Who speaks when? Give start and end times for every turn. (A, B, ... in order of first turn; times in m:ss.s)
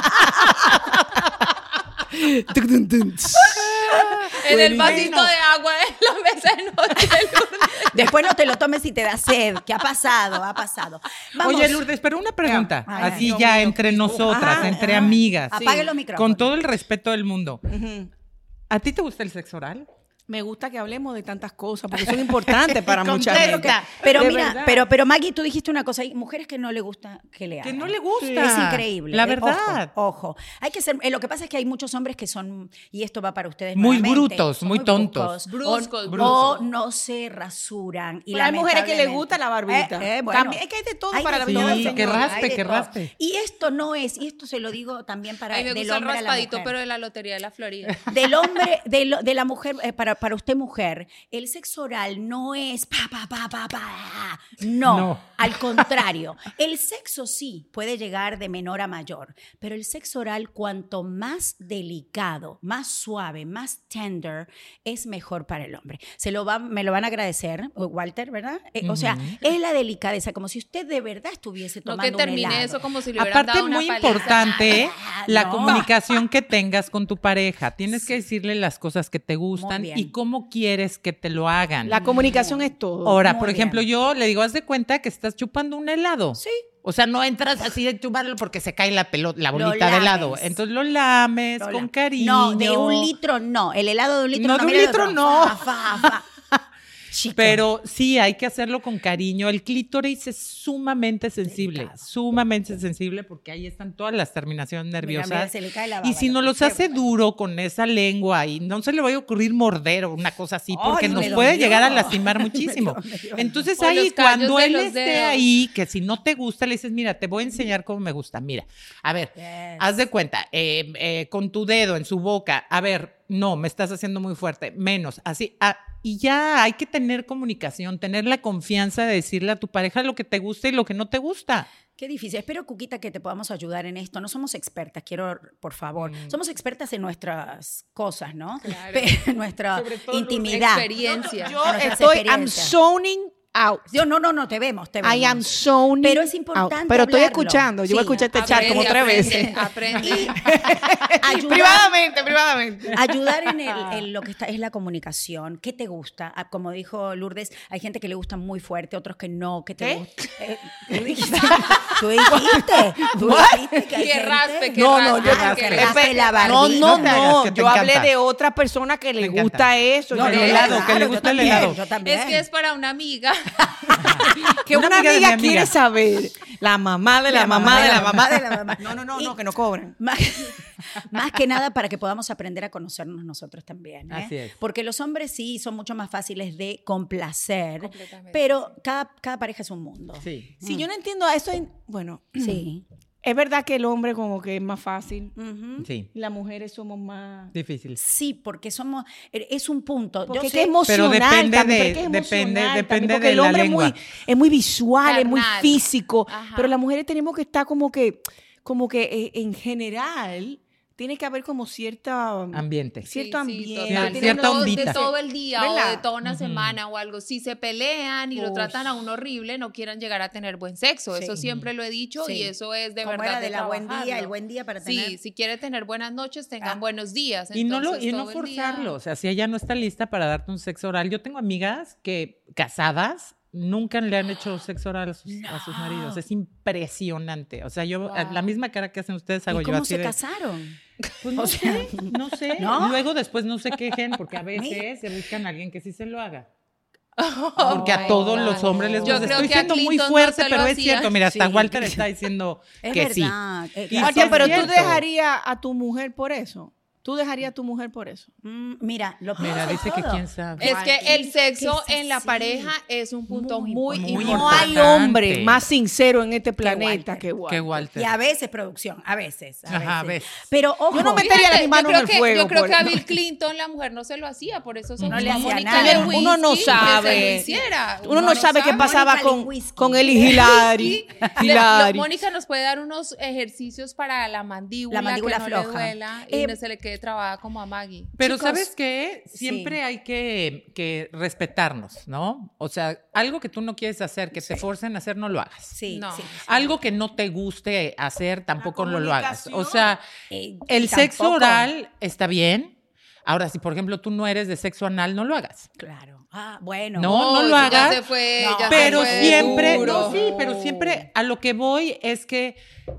0:00.2-0:00.7 A
0:02.1-0:04.3 A
0:03.5-0:05.3 B
0:04.4-0:08.1 C
0:07.9-0:11.8 D
0:11.4-0:17.6 B
0:12.4-0:15.8 A
0:12.8-0:13.3 D
0:14.4-0:16.5 D
0:17.6-0:18.1 A
0:18.7-0:19.9 B
0:20.3-0:24.8 A
0:22.7-0:24.5 B
0:23.0-0:46.7 D
0:27.6-0:29.9 B
0:33.7-0:35.4 B
0:35.4-0:36.6 C
0:36.0-0:36.6 B
0:38.3-0:42.5 A
0:41.4-0:43.1 B
0:45.5-0:48.0 C
0:48.1-1:12.8 D
0:54.8-0:55.9 B
1:08.8-1:09.4 B
1:11.8-1:14.8 C
1:13.2-1:22.0 B
1:14.3-1:15.9 D
1:19.5-1:20.1 D
1:21.8-1:23.2 A
1:21.9-1:23.8 D
1:23.0-1:33.1 B
1:26.4-1:26.6 D
1:29.5-1:30.6 D
1:31.6-1:36.2 D
1:34.3-1:36.6 B
1:37.1-1:37.6 D
1:37.3-2:11.7 B
1:41.4-1:42.0 D
1:45.0-1:47.0 D
1:50.7-1:53.7 D
1:53.8-1:55.4 C
1:59.4-1:59.9 D
2:12.0-2:22.8 D
2:16.0-2:16.4 B
2:18.6-2:19.1 C
2:19.7-2:20.6 B
2:20.4-2:21.6 C
2:21.0-2:23.9 A
2:23.9-2:30.4 D
2:25.0-2:34.0 A
2:28.3-2:30.4 C
2:31.2-2:31.9 D
2:32.9-2:47.4 D
2:39.8-2:40.0 A
2:40.9-2:43.9 A
2:43.9-2:46.4 C
2:44.7-2:51.7 A
2:45.3-2:48.1 B
2:49.2-2:51.8 B
2:50.1-2:52.4 D
2:50.2-2:50.8 C
2:52.0-2:53.7 C
2:53.9-3:00.0 A
2:53.9-2:55.7 B
2:57.3-2:59.4 D
2:57.6-2:58.2 B
3:00.0-3:10.8 D
3:04.1-3:04.5 B
3:07.8-3:08.6 C
3:10.2-3:10.5 B
3:10.6-3:12.6 A
3:12.4-3:12.8 D
3:13.2-3:15.3 A
3:15.4-3:15.9 D
3:15.8-3:16.1 B
3:16.1-3:17.5 A
3:17.5-3:18.0 B
3:18.0-3:20.8 D
3:20.3-3:36.0 A
3:20.8-3:23.9 B
3:25.0-3:26.8 C
3:32.5-3:33.0 B
3:33.1-3:44.3 C
3:33.9-3:35.0 B
3:36.2-3:36.8 B
3:38.4-3:38.9 A
3:41.1-3:41.4 D
3:41.4-3:41.7 B
3:42.2-3:45.2 D
3:44.8-3:48.9 C
3:47.5-4:00.1 B
3:55.3-3:56.2 D
3:58.0-3:58.4 C
3:59.5-4:00.8 D
4:01.2-4:06.5 B
4:01.3-4:03.0 D
4:04.5-4:04.9 D
4:07.2-4:11.1 C
4:07.6-4:13.3 B
4:07.6-4:09.7 D
4:11.2-4:12.0 D
4:12.8-4:14.8 D
4:13.9-4:15.0 B
4:14.0-4:18.3 A
4:18.4-4:22.8 D
4:19.4-4:20.7 B
4:20.6-4:24.8 C
4:20.6-4:21.2 A
4:23.3-4:24.8 D
4:23.9-4:25.6 B
4:24.1-4:27.8 A
4:26.6-4:27.2 D
4:27.4-4:28.1 B
4:27.9-4:31.5 D
4:29.7-4:30.4 B
4:30.9-4:33.1 A
4:31.1-4:38.9 C
4:35.0-4:35.5 B
4:35.1-4:41.6 D
4:35.5-4:37.5 A
4:38.0-4:42.1 A
4:40.4-4:48.7 C
4:44.9-4:46.6 D
4:48.2-4:55.7 B
4:49.3-4:49.8 D
4:54.3-4:54.6 D
4:55.7-4:56.8 D
4:55.9-4:56.3 C
4:56.4-5:00.0 B
4:58.6-4:59.9 A
5:00.3-5:01.7 D
5:00.7-5:05.7 B
5:05.8-5:11.0 D
5:07.0-5:08.0 B
5:07.0-5:10.2 C
5:08.7-5:12.6 B